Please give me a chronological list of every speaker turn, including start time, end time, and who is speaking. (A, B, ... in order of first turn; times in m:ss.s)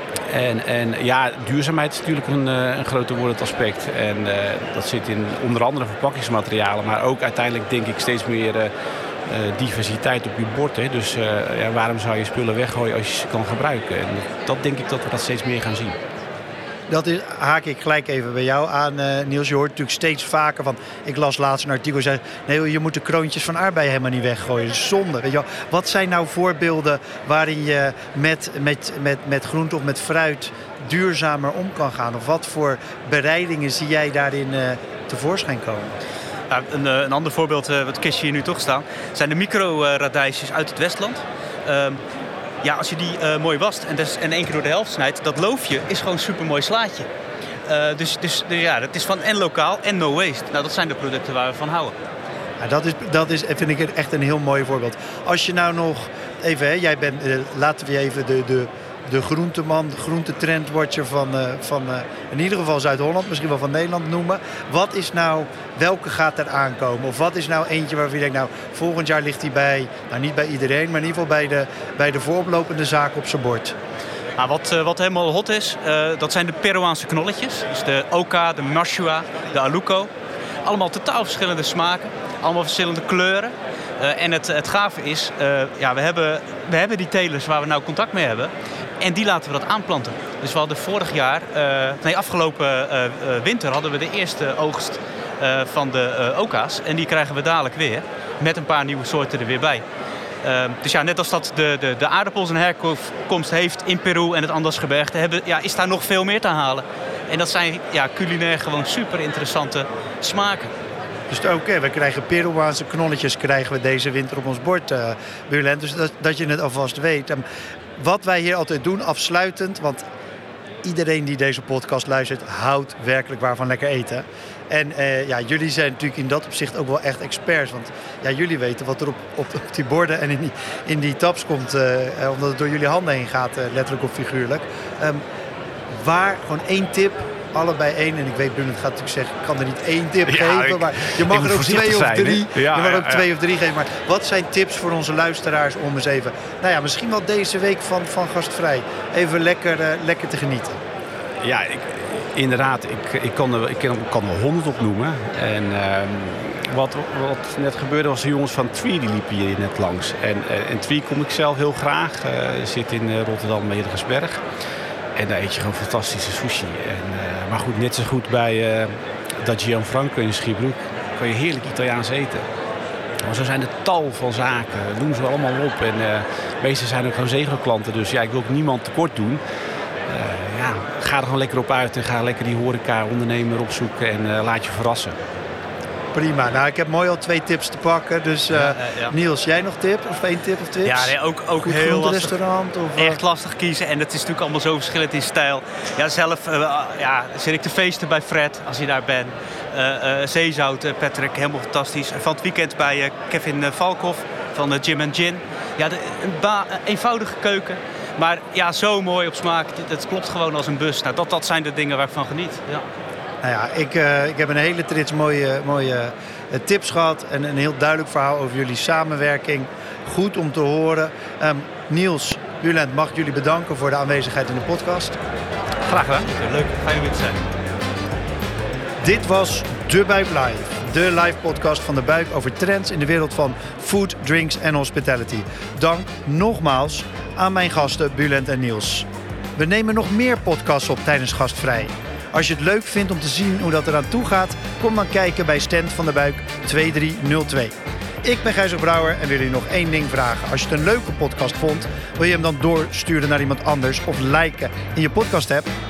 0:00.3-0:08.7 A
0:09.2-0:16.0 A
0:16.9-0:36.0 B
0:36.5-0:42.0 C
0:42.6-0:47.1 C
0:47.7-0:51.9 C
0:52.6-1:13.7 B
1:14.4-1:20.1 C
1:20.6-1:39.8 C
1:40.4-1:50.7 C
1:51.3-1:57.4 B
1:58.0-2:00.0 B
2:00.8-2:15.2 B
2:15.9-2:30.8 B
2:20.2-2:23.3 A
2:31.4-2:44.4 A
2:45.2-2:52.5 A
2:53.2-2:59.4 A
3:00.0-3:05.2 A
3:06.1-3:13.2 B
3:08.5-3:09.1 C
3:10.8-3:12.4 C
3:13.0-3:32.8 C
3:33.4-3:45.2 B
3:45.9-3:47.4 C
3:49.0-4:15.7 B